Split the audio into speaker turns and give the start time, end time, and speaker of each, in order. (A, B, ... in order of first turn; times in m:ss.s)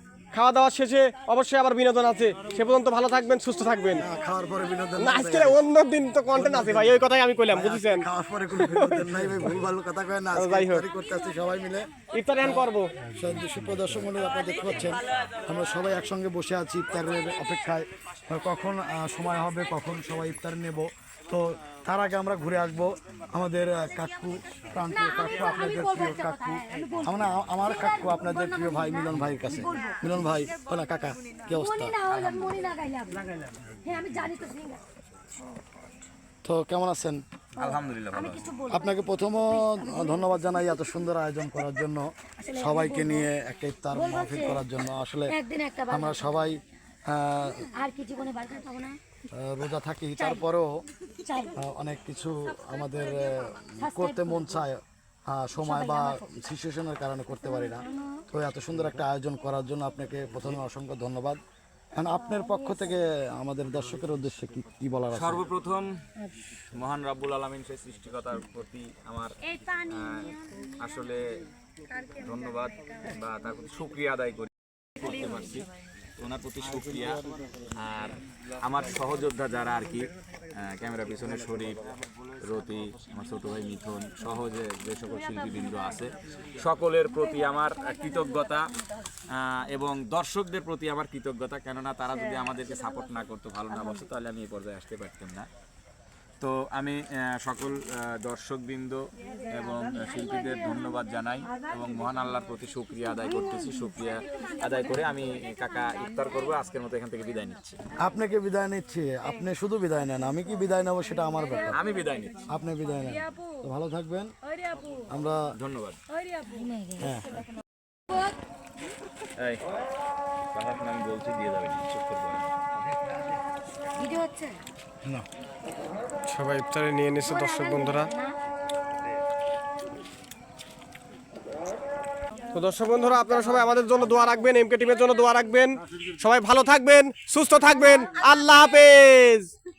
0:00.3-0:04.1 A
0:04.0-0:05.6 B
0:05.0-0:09.4 A
0:06.3-0:11.9 B
0:10.4-0:10.8 A
0:12.2-0:12.9 A
0:12.4-0:32.0 B
0:24.9-0:30.0 C
0:31.5-0:33.2 C
0:32.1-0:32.6 D
0:33.8-0:34.8 C
0:36.4-0:37.2 B
0:37.6-0:38.5 D
0:37.6-0:40.6 C
0:38.7-0:45.4 B
0:42.4-0:43.3 C
0:44.0-0:44.6 C
0:45.3-0:46.5 C
0:45.9-0:47.7 B
0:47.7-0:49.0 C
0:49.3-0:50.7 B
0:51.2-0:51.6 C
0:51.6-1:01.4 B
0:53.8-0:54.6 C
0:55.6-0:56.2 C
0:57.4-0:58.2 C
1:02.0-1:05.4 B
1:02.2-1:03.0 C
1:05.1-1:05.9 D
1:06.8-1:11.3 D
1:12.2-1:15.7 D
1:16.2-1:17.2 D
1:17.8-1:28.7 D
1:29.3-1:35.5 D
1:36.4-1:47.8 D
1:48.0-1:51.8 B
1:51.7-1:52.4 D
1:52.5-1:54.3 B
1:55.1-1:55.4 B
1:55.5-1:56.0 D
1:56.5-1:57.2 C
1:57.0-1:57.3 B
2:00.5-2:02.5 D
2:04.0-2:04.6 C
2:06.3-2:08.1 A
2:07.2-2:08.4 C
2:12.5-2:19.5 A